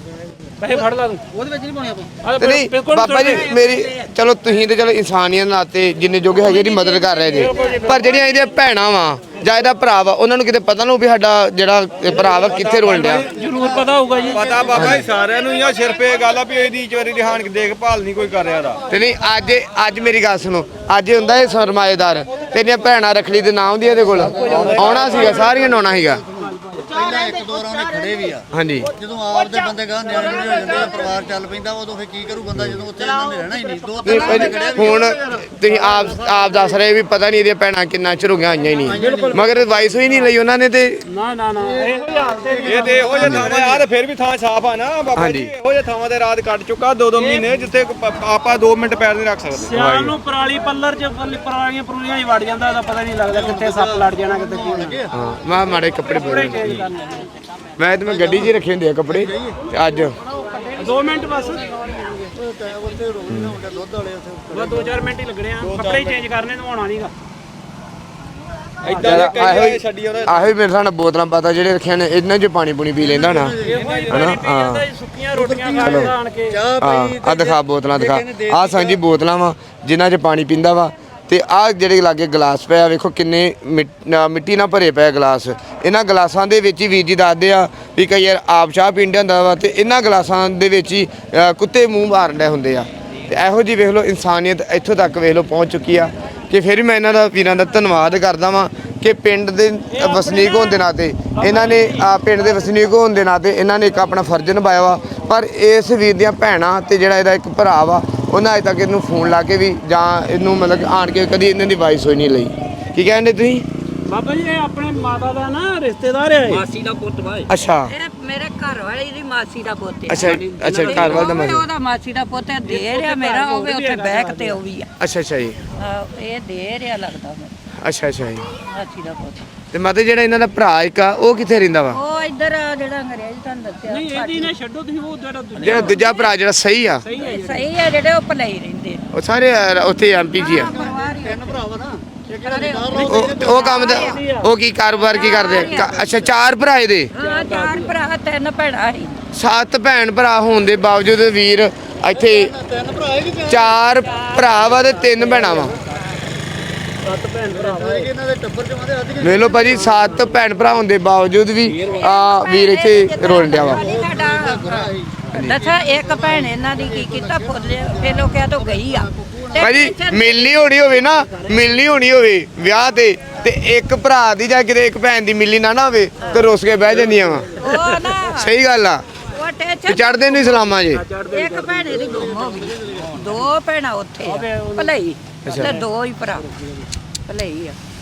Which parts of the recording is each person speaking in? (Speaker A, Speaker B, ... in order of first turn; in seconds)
Speaker A: 0.6-1.2, 2.2-3.6, 6.8-8.3, 12.8-14.5, 24.2-25.5, 26.4-26.8, 39.0-39.9, 41.1-43.8, 47.2-47.6, 49.5-55.0, 56.0-57.3, 60.2-62.1, 64.5-67.1, 68.8-69.3, 73.6-76.6, 99.9-102.3, 114.1-116.7, 120.1-121.6, 122.6-124.6, 133.9-136.0, 137.0-137.7, 142.9-144.5, 147.1-147.9, 157.0-158.1, 176.9-178.2, 180.9-182.1, 184.2-184.9, 185.5-186.8
Speaker B: 0.7-2.1, 3.6-3.9, 26.8-28.4, 30.1-31.1, 33.0-34.5, 116.9-117.3
Speaker C: 2.4-13.3, 14.7-15.1, 18.9-26.2, 28.5-28.9, 32.5-32.8, 34.0-41.0, 43.2-43.5, 45.1-45.5, 49.7-50.1, 55.1-56.8, 57.8-60.1, 63.3-63.6, 69.0-73.6, 74.1-74.8, 75.8-76.1, 76.8-113.6, 117.5-117.9, 120.1-121.6, 125.0-125.6, 127.8-128.5, 129.7-132.0, 135.6-137.0, 139.1-140.7, 143.0-147.1, 149.3-152.5, 153.5-155.7, 159.2-163.8, 169.6-177.5, 178.2-179.0, 179.9-181.0, 185.4-185.8
Speaker D: 12.5-13.1, 14.3-18.8, 42.7-49.7, 65.6-66.2, 68.8-70.5, 73.7-74.3
Speaker E: 13.3-15.0, 24.2-36.5, 38.8-39.6, 41.6-43.4, 53.3-55.1, 58.0-59.6, 62.2-64.9, 73.0-73.8, 75.3-79.0, 140.5-143.9, 145.1-146.3, 152.1-153.8, 157.5-160.2, 163.5-169.8, 181.8-183.5
Speaker F: 116.5-124.9, 125.7-127.5, 128.6-129.4, 131.9-134.5, 136.0-136.3, 137.2-139.1, 140.3-141.4, 142.4-144.2, 144.9-145.9, 147.1-149.2, 154.1-154.8, 161.8-170.7, 177.6-178.5, 179.3-180.7, 181.3-186.5, 187.2-187.8